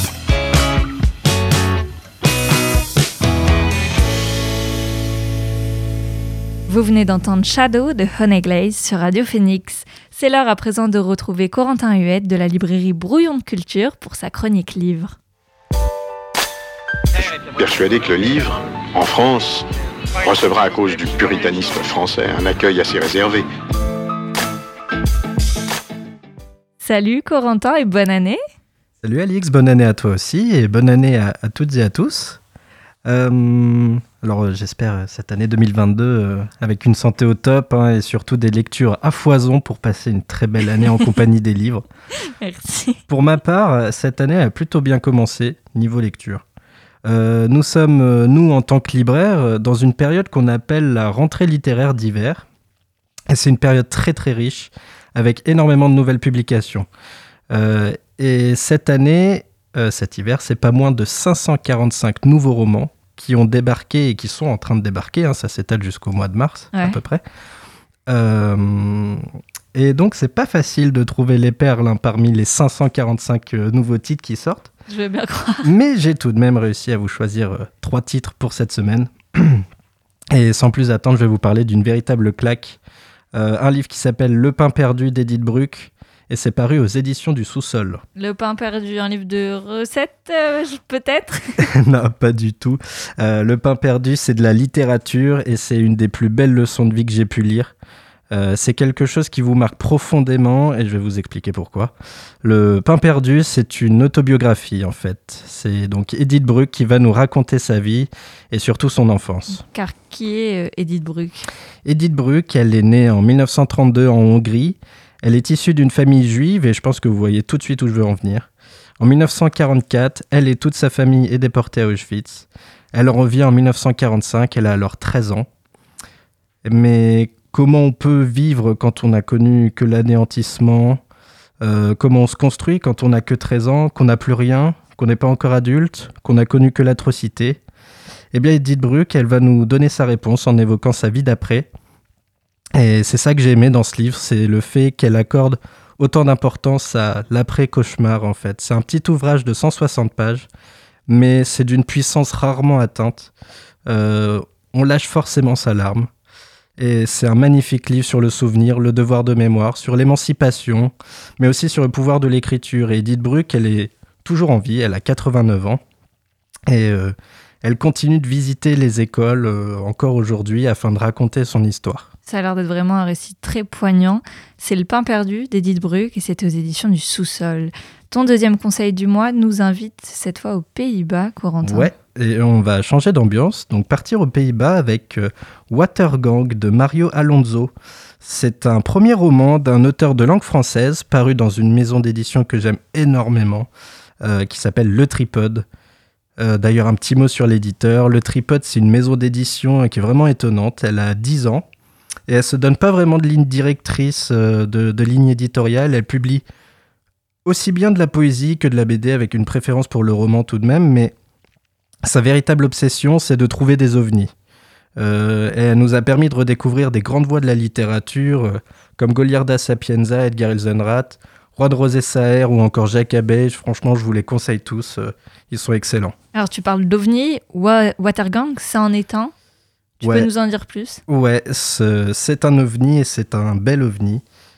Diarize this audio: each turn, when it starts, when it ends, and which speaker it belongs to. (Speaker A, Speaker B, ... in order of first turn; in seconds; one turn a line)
Speaker A: 6.7-15.2
Speaker B: 17.5-19.7
Speaker B: 20.2-23.5
Speaker A: 26.8-28.4
Speaker C: 29.0-32.4
Speaker C: 33.1-41.9
Speaker A: 42.4-43.0
Speaker C: 43.1-46.4
Speaker C: 47.0-52.5
Speaker C: 53.3-56.9
Speaker C: 57.5-67.2
Speaker A: 66.7-67.0
Speaker C: 68.1-74.7
Speaker A: 74.9-75.7
Speaker C: 75.6-79.7
Speaker C: 80.3-82.8
Speaker C: 83.3-88.0
Speaker A: 88.2-91.7
Speaker C: 91.6-97.7
Speaker C: 98.3-109.6
Speaker A: 109.5-111.5
Speaker C: 111.8-118.5
Speaker C: 119.0-125.5
Speaker C: 126.6-131.0
Speaker C: 131.6-137.6
Speaker C: 138.3-141.7
Speaker C: 142.8-150.5
Speaker C: 151.1-153.3
Speaker C: 153.9-156.1
Speaker C: 156.8-165.8
Speaker C: 166.7-172.1
Speaker A: 172.3-181.9
Speaker C: 181.6-193.7
Speaker C: 194.2-195.7
Speaker C: 196.4-201.7
Speaker C: 202.3-206.4
Speaker C: 207.4-211.2
Speaker C: 212.1-214.3
Speaker C: 215.0-226.2
Speaker A: 226.3-229.3
Speaker A: 230.0-231.0
Speaker C: 230.0-230.3
Speaker C: 231.1-234.2